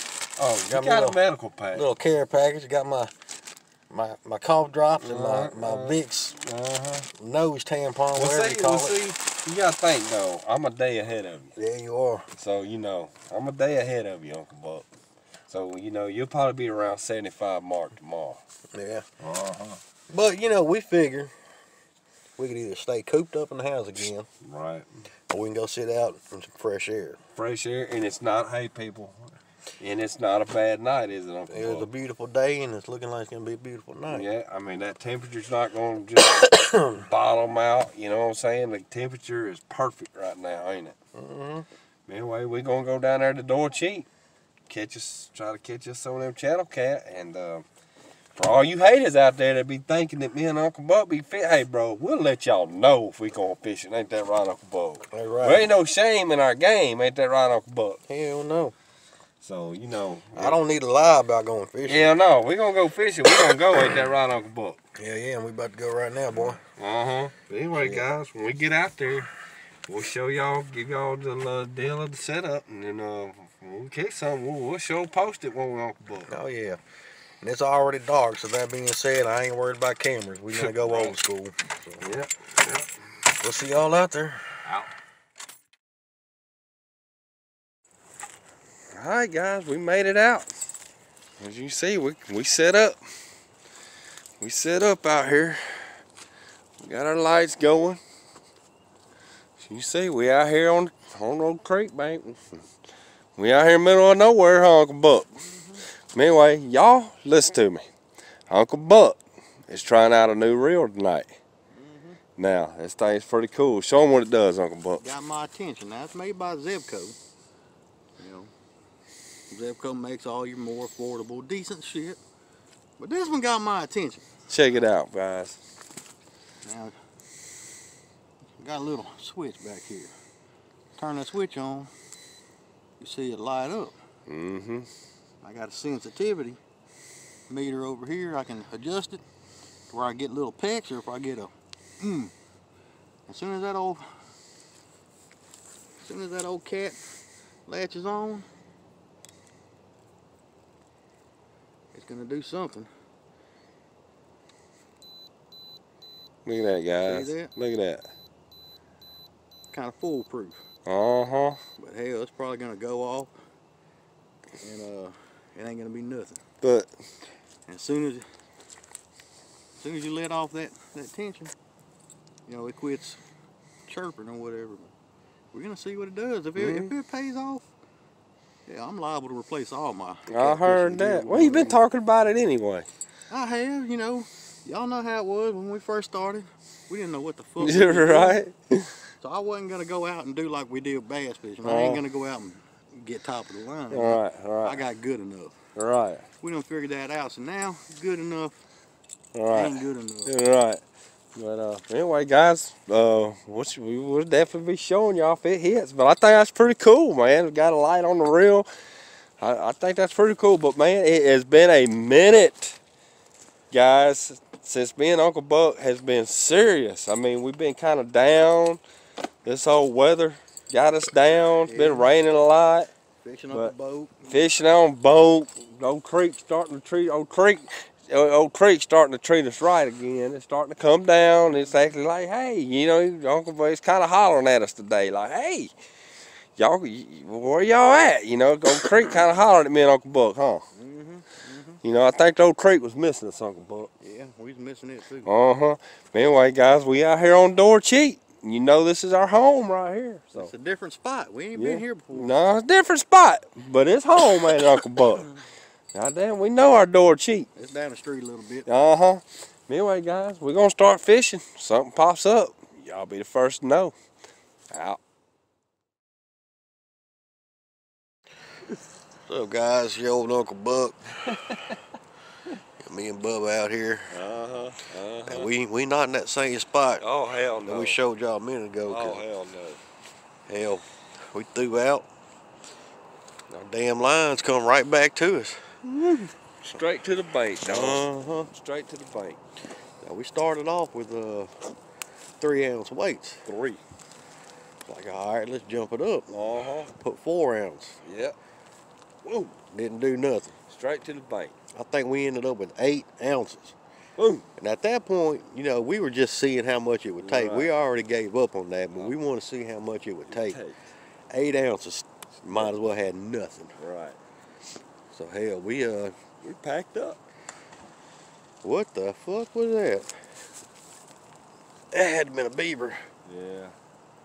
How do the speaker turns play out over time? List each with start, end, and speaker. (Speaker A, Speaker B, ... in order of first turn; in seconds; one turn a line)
Speaker A: 0.4-1.9
Speaker B: 0.7-1.2
Speaker B: 1.7-3.1
Speaker B: 3.9-6.4
Speaker A: 5.0-7.1
Speaker B: 7.1-9.0
Speaker A: 8.1-11.5
Speaker B: 11.6-12.3
Speaker A: 12.4-14.9
Speaker A: 15.5-18.4
Speaker B: 18.7-19.0
Speaker A: 19.2-19.8
Speaker B: 20.1-21.3
Speaker B: 22.4-24.3
Speaker A: 24.4-24.9
Speaker B: 25.3-27.2
Speaker A: 27.3-31.9
Speaker B: 31.5-34.3
Speaker A: 34.1-41.0
Speaker B: 36.4-37.0
Speaker B: 41.1-41.7
Speaker A: 42.1-44.1
Speaker A: 44.7-47.6
Speaker A: 48.3-58.0
Speaker B: 55.1-55.6
Speaker B: 58.1-58.7
Speaker A: 59.4-60.6
Speaker B: 60.3-62.1
Speaker A: 61.9-64.8
Speaker B: 63.5-64.0
Speaker B: 64.9-66.6
Speaker A: 66.3-69.3
Speaker B: 67.8-68.1
Speaker A: 69.9-76.3
Speaker B: 76.3-76.8
Speaker B: 77.4-82.0
Speaker A: 80.5-81.2
Speaker A: 82.0-82.9
Speaker B: 83.4-84.4
Speaker A: 84.6-84.9
Speaker A: 88.9-90.5
Speaker A: 91.4-93.0
Speaker A: 94.4-96.0
Speaker A: 96.8-98.0
Speaker A: 99.6-102.4
Speaker A: 103.3-105.3
Speaker B: 105.3-105.8
Speaker A: 106.0-107.8
Speaker A: 108.5-111.3
Speaker B: 111.7-112.2
Speaker A: 112.4-115.0
Speaker B: 115.0-117.2
Speaker B: 118.2-118.5
Speaker B: 119.5-122.2
Speaker B: 123.0-124.2
Speaker A: 124.5-125.6
Speaker B: 126.6-126.9
Speaker B: 128.6-130.1
Speaker B: 131.0-131.9
Speaker B: 133.0-134.0
Speaker A: 134.3-134.9
Speaker B: 135.4-136.6
Speaker B: 137.5-139.2
Speaker B: 139.9-142.3
Speaker B: 143.3-144.1
Speaker B: 146.0-147.0
Speaker B: 147.7-148.4
Speaker B: 151.9-152.9
Speaker A: 156.4-158.1
Speaker B: 157.0-157.5
Speaker B: 159.7-160.6
Speaker A: 160.9-161.6
Speaker B: 161.8-163.3
Speaker B: 164.6-166.4
Speaker A: 166.6-166.9
Speaker B: 167.7-168.2
Speaker B: 169.8-171.5
Speaker B: 172.5-173.2
Speaker B: 173.9-174.9
Speaker B: 175.5-177.6
Speaker A: 176.6-176.9
Speaker B: 178.7-181.8
Speaker A: 180.3-182.9
Speaker B: 183.3-188.4
Speaker A: 187.6-189.0
Speaker B: 189.2-195.6
Speaker A: 191.6-192.0
Speaker A: 193.9-194.8
Speaker A: 195.8-196.3
Speaker B: 196.4-198.6
Speaker A: 199.3-200.8
Speaker B: 199.5-200.3
Speaker A: 201.3-208.7
Speaker A: 209.4-212.8
Speaker A: 213.7-218.8
Speaker A: 219.4-222.9
Speaker B: 221.6-222.2
Speaker B: 223.2-224.5
Speaker A: 223.5-235.7
Speaker B: 231.5-231.8
Speaker A: 236.6-240.7
Speaker B: 240.7-241.8
Speaker A: 241.8-243.9
Speaker B: 244.0-245.3
Speaker A: 245.2-250.5
Speaker B: 250.3-252.4
Speaker A: 251.5-255.4
Speaker A: 255.9-257.5
Speaker B: 257.6-258.7
Speaker A: 258.6-263.9
Speaker A: 264.7-265.0
Speaker B: 269.2-271.4
Speaker A: 271.3-271.8
Speaker B: 272.8-274.1
Speaker A: 274.1-275.5
Speaker B: 275.2-277.0
Speaker A: 277.0-278.0
Speaker B: 277.6-279.2
Speaker A: 278.8-279.8
Speaker B: 280.5-282.1
Speaker B: 283.5-286.2
Speaker A: 286.6-289.4
Speaker B: 287.6-288.5
Speaker B: 290.0-291.5
Speaker B: 292.4-293.4
Speaker A: 293.4-293.8
Speaker B: 294.8-296.3
Speaker A: 296.3-296.9
Speaker B: 296.9-298.0
Speaker A: 298.0-298.4
Speaker A: 299.2-299.5
Speaker B: 299.7-300.5
Speaker A: 300.7-301.6
Speaker B: 301.7-303.8
Speaker A: 304.2-304.4
Speaker B: 304.6-310.6
Speaker A: 307.2-307.8
Speaker A: 310.3-310.8
Speaker B: 311.3-313.8
Speaker A: 312.5-312.8
Speaker A: 313.8-314.2
Speaker B: 315.1-316.1
Speaker A: 316.4-317.2
Speaker B: 318.6-320.2
Speaker B: 321.9-323.0
Speaker A: 323.2-323.8